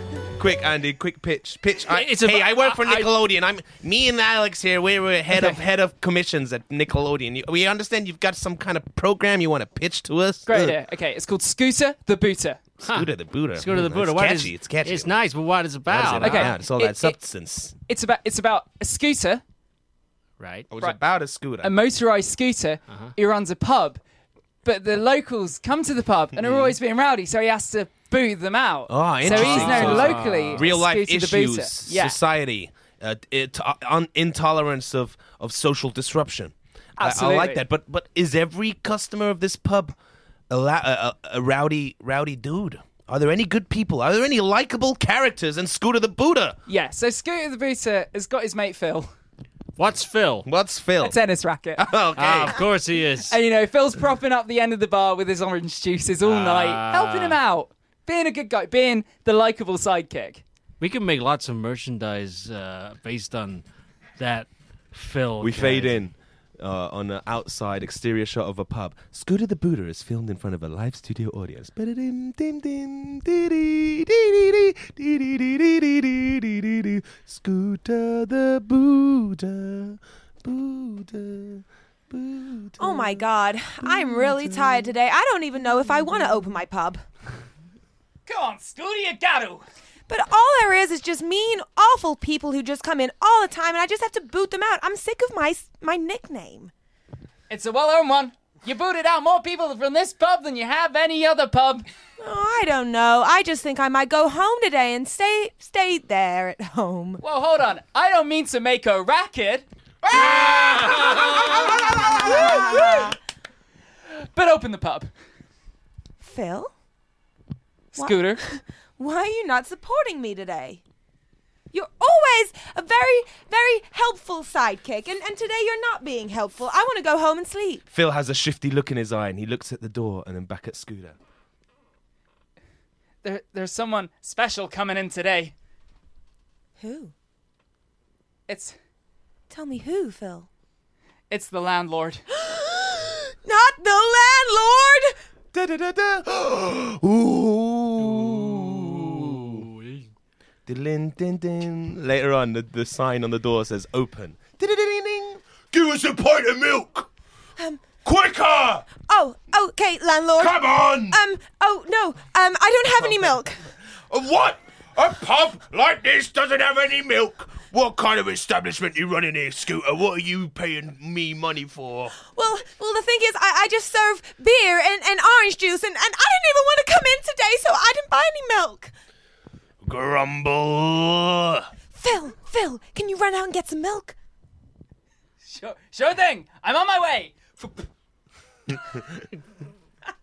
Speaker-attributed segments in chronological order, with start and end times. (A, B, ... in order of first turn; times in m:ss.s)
0:00.4-0:10.8 A
0:01.9-0:03.2 B
0:05.3-0:05.6 C
0:10.5-0:12.6 C
0:12.8-0:15.2 A
0:12.8-0:16.6 B
0:15.9-0:17.7 A
0:16.2-0:17.2 C
0:17.9-0:19.4 C
0:20.4-0:20.7 B
0:20.7-0:21.7 A
0:21.6-0:24.0 C
0:24.6-0:32.2 C
0:26.4-0:26.8 A
0:28.9-0:40.0 A
0:29.2-0:30.7 B
0:37.0-0:37.6 C
0:40.5-0:46.6 A
0:46.7-0:49.1 C
0:49.8-0:50.5 B
0:50.4-0:51.2 A
0:51.0-0:51.8 C
0:51.8-0:52.7 A
0:52.2-0:53.3 B
0:53.3-1:00.4 C
0:56.2-0:57.4 B
1:00.8-1:03.6 B
1:04.2-1:06.1 B
1:05.4-1:23.2 A
1:22.8-1:27.0 D
1:23.8-1:24.7 A
1:28.3-1:29.6 C
1:30.1-1:36.7 D
1:37.5-1:41.9 C
1:42.2-1:47.2 D
1:47.2-1:49.6 C
1:50.0-1:52.8 A
1:50.2-1:51.2 B
1:51.3-1:53.1 C
1:51.4-1:53.1 D
1:54.3-1:55.1 C
1:56.2-1:56.7 D
1:57.9-1:58.4 C
1:58.0-2:00.8 D
2:01.7-2:07.9 D
2:07.9-2:11.2 A
2:13.2-2:15.5 C
2:16.8-2:17.1 D
2:18.5-2:18.8 C
2:19.5-2:20.5 D
2:21.3-2:22.2 C
2:22.4-2:25.1 D
2:25.5-2:29.7 A
2:28.0-2:30.1 B
2:30.7-2:37.1 A
2:37.6-2:37.8 D
2:38.0-2:38.9 A
2:39.0-2:43.6 D
2:40.4-2:41.2 A
2:43.0-2:43.4 A
2:44.1-2:52.1 A
2:52.2-2:58.9 D
2:59.8-3:01.7 A
3:02.0-3:04.2 D
3:05.5-3:07.9 C